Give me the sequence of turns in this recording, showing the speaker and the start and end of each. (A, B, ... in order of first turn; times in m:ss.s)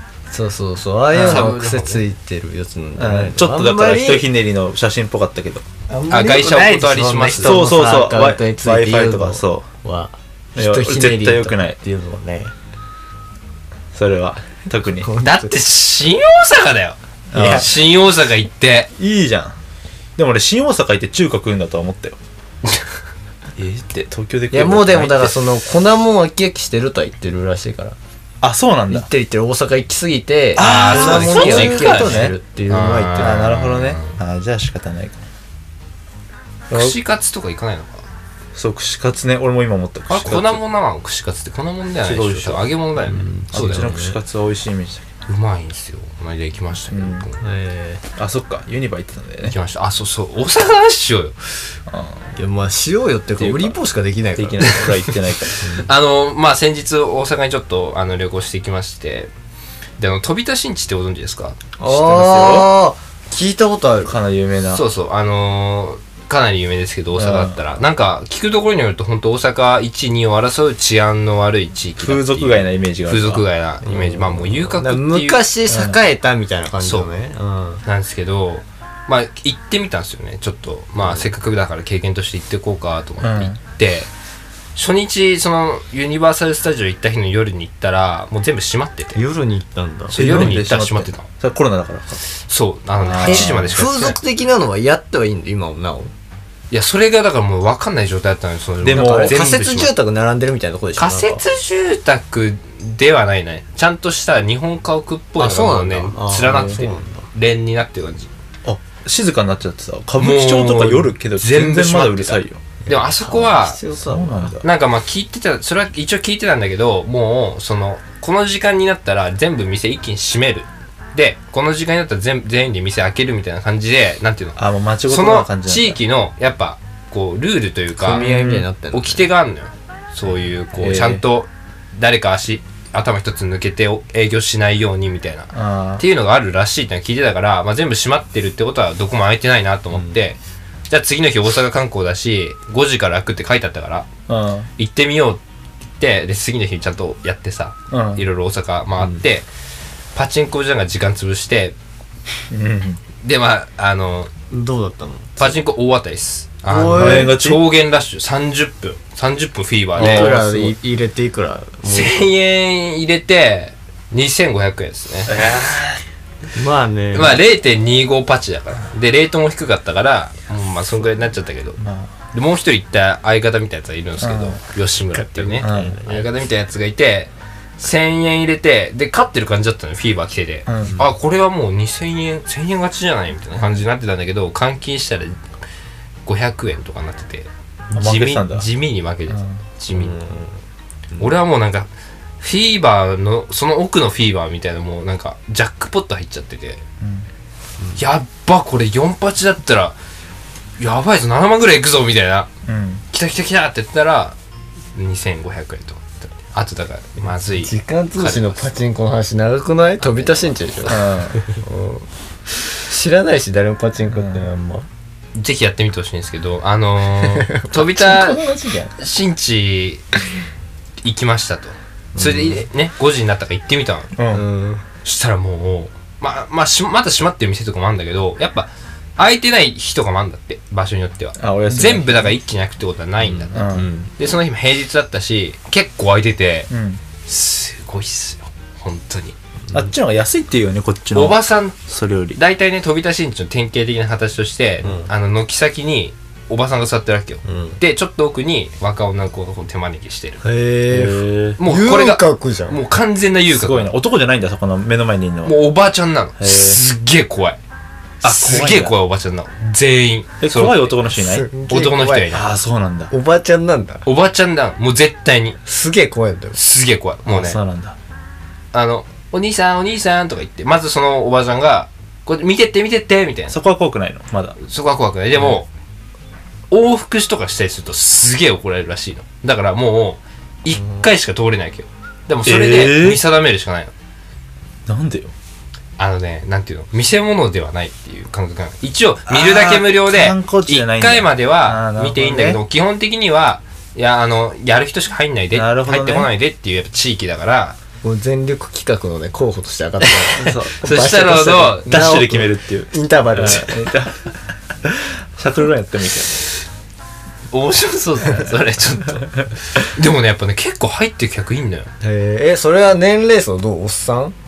0:00.3-0:04.3 A
0:01.1-0:01.5 B
0:01.2-0:02.0 C
0:03.0-0:05.6 B
0:05.9-0:12.5 A
0:06.1-0:07.6 C
0:07.4-0:09.6 B
0:10.6-0:11.8 B
0:13.9-0:15.1 B
0:14.8-0:15.5 A
0:15.2-0:18.9 C
0:17.3-0:17.7 B
0:17.3-0:17.7 A
0:19.0-0:19.6 B
0:20.2-0:22.2 B
0:23.6-0:25.4 B
0:24.5-0:28.0 A
0:28.4-0:29.1 B
0:28.9-0:33.5 A
0:30.6-0:32.4 B
0:30.6-0:34.2 C
0:33.2-0:35.2 B
0:36.7-0:36.9 B
0:36.7-0:38.0 C
0:38.5-0:40.6 B
0:40.1-0:43.9 C
0:42.0-0:42.7 B
0:43.0-0:44.2 A
0:43.5-0:45.1 B
0:45.3-0:47.4 C
0:46.9-0:47.3 B
0:47.4-0:48.0 A
0:48.2-0:49.6 B
0:49.5-0:51.5 C
0:51.9-0:52.3 B
0:52.4-0:54.9 A
0:53.4-0:53.8 B
0:54.4-0:55.6 B
0:55.4-0:59.3 C
0:55.6-0:55.9 A
1:00.0-1:01.6 C
1:01.8-1:04.2 A
1:01.8-1:02.7 B
1:04.0-1:04.8 B
1:04.7-1:15.4 C
1:07.1-1:07.6 B
1:12.0-1:13.4 B
1:13.9-1:14.2 A
1:14.8-1:17.8 A
1:15.7-1:16.0 B
1:16.8-1:17.1 C
1:17.8-1:24.1 C
1:23.2-1:23.6 B
1:24.7-1:29.2 C
1:29.1-1:30.2 A
1:30.1-1:31.3 C
1:30.1-1:32.2 B
1:32.4-1:34.2 C
1:33.0-1:33.8 B
1:33.2-1:36.1 A
1:36.7-1:39.9 C
1:38.8-1:39.4 B
1:38.8-1:41.4 A
1:41.0-1:48.3 C
1:45.4-1:47.3 A
1:46.4-1:46.8 B
1:48.6-1:52.6 B
1:50.2-1:53.8 C
1:52.8-1:54.6 A
1:54.0-1:54.6 B
1:54.6-2:08.2 C
2:04.6-2:06.0 B
2:08.0-2:09.3 A
2:08.1-2:08.6 B
2:08.9-2:20.4 C
2:10.8-2:11.2 B
2:15.5-2:16.0 B
2:20.9-2:24.1 C
2:24.3-2:24.7 B
2:24.8-2:25.4 C
2:26.0-2:29.5 C
2:27.9-2:28.2 B
2:30.1-2:31.8 C
2:32.5-2:33.0 B
2:33.2-2:34.3 C
2:34.5-2:35.5 A
2:35.4-2:40.7 C
2:36.6-2:37.3 A
2:36.9-2:37.6 B
2:40.0-2:40.6 B
2:40.0-2:42.3 A
2:41.9-2:45.4 C
2:45.3-2:46.0 B
2:46.5-2:47.4 A
2:47.1-2:51.8 C
2:51.8-2:52.1 B
2:52.3-3:05.4 C
2:54.2-2:54.6 B
2:55.1-2:56.3 A
2:55.6-2:56.0 B
3:00.7-3:01.0 B
3:06.2-3:10.2 C
3:07.9-3:08.7 B
3:09.3-3:09.6 B
3:09.9-3:10.5 A
3:11.2-3:11.9 C
3:12.4-3:16.8 C
3:17.0-3:17.2 B
3:18.0-3:20.0 C
3:20.8-3:22.5 C
3:22.6-3:23.0 B
3:23.1-3:24.4 C
3:24.9-3:28.8 C
3:27.6-3:31.0 A
3:30.0-3:31.0 C
3:30.9-3:31.4 B
3:31.6-3:32.0 A
3:32.7-3:34.8 A
3:34.1-3:34.5 B
3:35.3-3:38.4 C
3:37.2-3:37.5 A
3:37.8-3:38.9 B
3:39.0-3:40.1 C
3:41.0-3:44.1 C
3:42.1-3:42.6 A
3:44.1-3:44.4 B
3:44.3-3:44.8 A
3:45.0-3:56.7 C
3:51.4-3:52.3 B
3:53.3-3:54.1 A
3:53.5-3:54.0 B
3:56.7-3:57.0 B
3:57.2-3:59.4 C
3:59.7-4:02.4 B
4:01.1-4:01.8 C
4:02.3-4:10.4 C
4:04.8-4:05.1 A
4:07.4-4:07.8 A
4:10.4-4:12.8 A
4:10.9-4:11.6 B
4:11.6-4:13.9 C
4:13.5-4:15.6 B
4:15.4-4:17.6 C
4:16.4-4:16.8 B
4:18.2-4:18.9 B
4:18.2-4:21.0 C
4:20.4-4:21.5 B
4:21.1-4:22.4 A
4:21.7-4:22.5 C
4:22.3-4:23.1 B
4:23.1-4:24.0 A
4:24.0-4:25.6 C
4:25.6-4:26.6 A
4:26.5-4:27.6 C
4:27.3-4:28.0 B
4:28.7-4:33.6 C
4:33.5-4:34.6 B
4:34.6-4:35.7 C
4:36.7-4:43.9 C
4:42.4-4:43.2 B
4:44.9-4:45.3 B
4:46.0-4:57.8 C
4:49.3-4:52.6 B
4:55.5-4:56.3 B
4:58.0-5:03.8 A
5:00.0-5:01.9 C
5:00.4-5:00.8 B
5:01.8-5:06.4 B
5:07.5-5:11.9 C
5:12.0-5:14.3 A